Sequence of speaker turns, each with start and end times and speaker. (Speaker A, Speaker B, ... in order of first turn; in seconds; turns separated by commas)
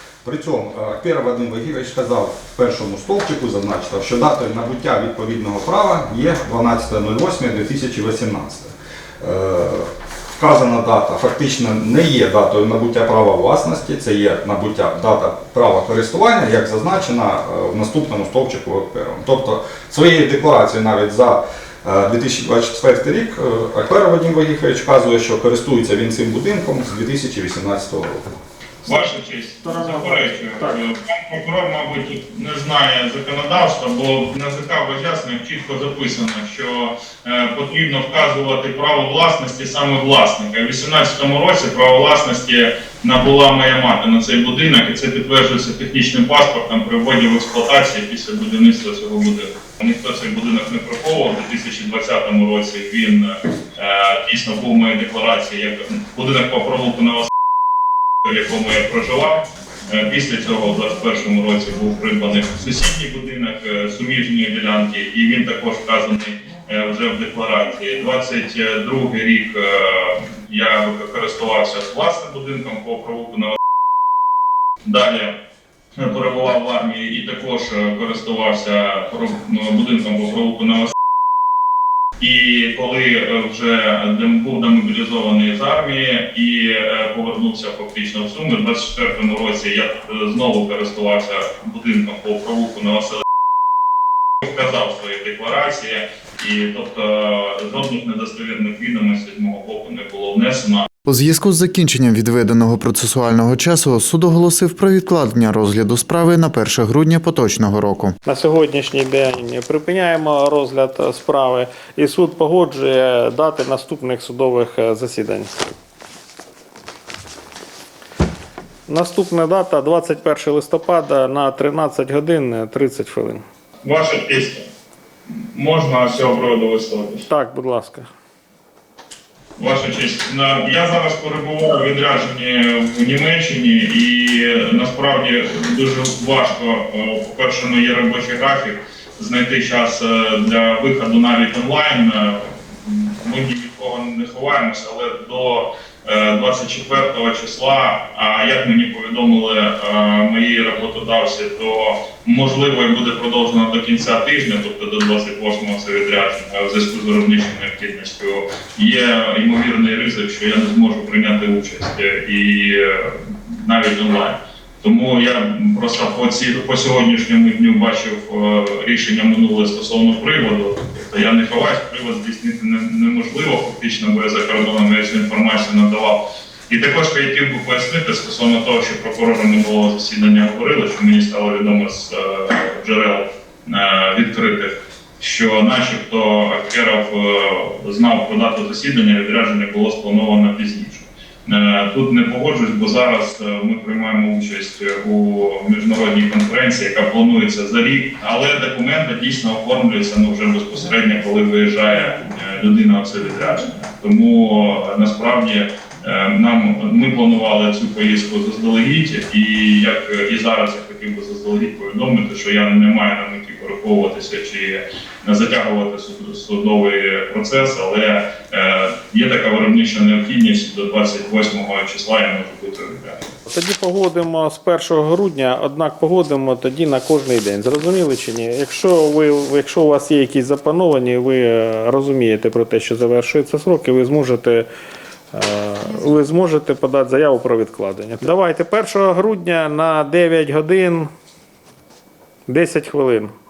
Speaker A: 0.2-28.4, Speaker B: 28.9-57.3, Speaker C: 29.6-30.8, Speaker B: 58.2-73.6, Speaker B: 74.8-75.3, Speaker B: 76.0-80.9, Speaker B: 82.2-93.2, Speaker B: 94.4-100.9, Speaker D: 101.0-108.2, Speaker C: 108.2-115.6, Speaker C: 118.9-123.4, Speaker B: 123.8-124.7, Speaker B: 125.3-127.2, Speaker C: 127.3-128.1, Speaker B: 129.6-223.3, Speaker C: 223.5-234.7, Speaker C: 235.3-241.1, Speaker C: 242.5-243.3